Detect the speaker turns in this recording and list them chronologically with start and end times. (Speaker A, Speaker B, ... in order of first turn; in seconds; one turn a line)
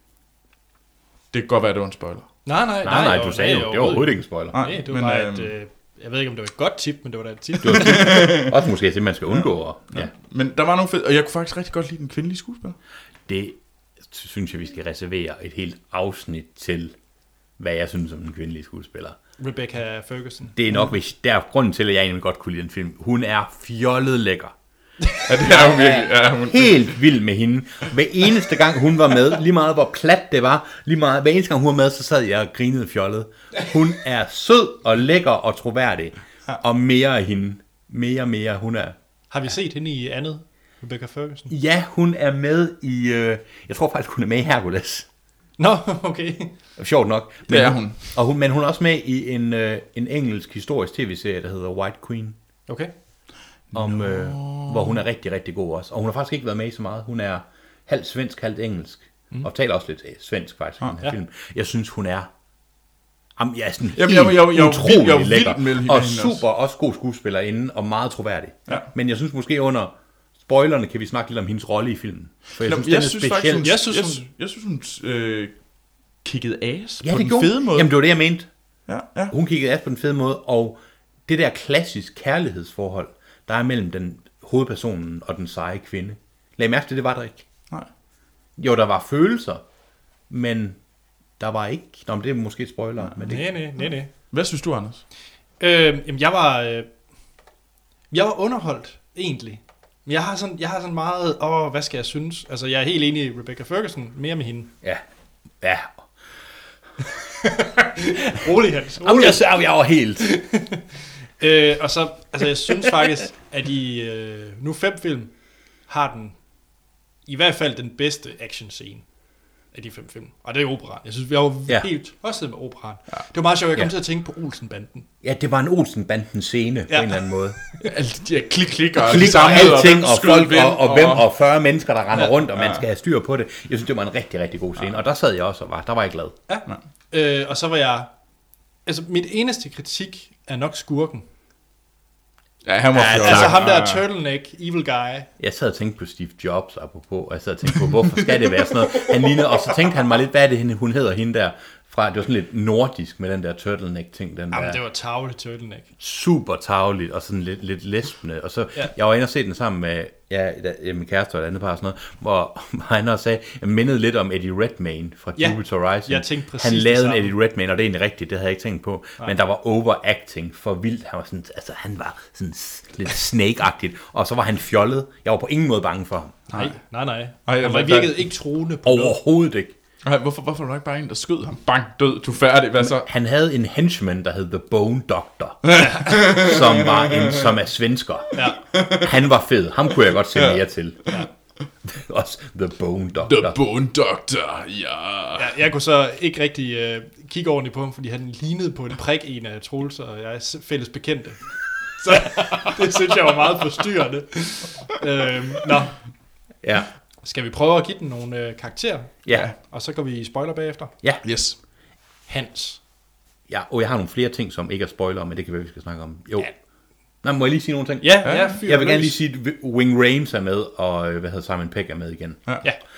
Speaker A: 1.3-2.3
Speaker B: 2.4-8.2
Speaker C: 2.8-4.5
Speaker A: 4.5-5.5
Speaker C: 7.6-10.1
Speaker A: 7.7-8.6
Speaker A: 9.9-12.8
Speaker C: 13.3-16.9
Speaker C: 17.6-19.2
Speaker B: 19.4-20.6
Speaker C: 20.6-24.5
Speaker B: 25.1-26.0
Speaker A: 25.2-26.9
Speaker C: 25.5-39.0
Speaker B: 39.3-41.5
Speaker C: 41.5-45.0
Speaker B: 45.6-46.5
Speaker C: 46.8-52.4
Speaker A: 47.5-48.2
Speaker A: 53.7-55.0
Speaker C: 53.7-62.3
Speaker C: 63.4-73.7
Speaker A: 63.9-66.4
Speaker A: 72.5-75.5
Speaker B: 73.6-74.2
Speaker A: 76.2-77.9
Speaker C: 77.0-78.5
Speaker A: 78.9-79.3
Speaker C: 79.3-87.4
Speaker C: 88.6-89.6
Speaker C: 90.3-90.8
Speaker C: 91.4-93.5
Speaker A: 93.1-93.4
Speaker B: 93.2-94.1
Speaker A: 94.1-95.0
Speaker B: 95.6-96.9
Speaker B: 98.1-104.7
Speaker C: 105.6-106.1
Speaker B: 107.4-109.4
Speaker C: 109.0-110.2
Speaker B: 110.2-110.8
Speaker B: 111.4-115.3
Speaker B: 115.9-116.4
Speaker B: 117.2-119.0
Speaker B: 119.7-125.1
Speaker C: 125.2-127.6
Speaker B: 126.9-127.9
Speaker A: 127.8-131.3
Speaker C: 129.0-136.3
Speaker B: 129.1-129.7
Speaker A: 132.6-132.8
Speaker B: 136.5-138.1
Speaker B: 138.8-141.2
Speaker A: 142.6-144.0
Speaker C: 142.9-143.6
Speaker B: 143.1-145.3
Speaker C: 145.4-154.8
Speaker B: 154.5-155.9
Speaker C: 156.0-176.4
Speaker B: 165.4-167.3
Speaker B: 176.5-179.2
Speaker A: 177.4-178.2
Speaker C: 178.8-179.7
Speaker A: 180.0-183.1
Speaker C: 182.9-191.1
Speaker A: 185.7-187.4
Speaker B: 185.8-186.2
Speaker B: 188.3-188.6
Speaker A: 188.7-189.1
Speaker A: 190.3-190.6
Speaker C: 191.8-193.6
Speaker A: 193.2-195.5
Speaker B: 195.3-206.0
Speaker C: 206.6-206.9
Speaker B: 207.2-210.9
Speaker A: 209.3-209.5
Speaker A: 211.2-211.6
Speaker B: 212.3-212.8
Speaker C: 213.5-216.5
Speaker C: 217.2-222.4
Speaker B: 218.0-219.2
Speaker A: 218.2-218.6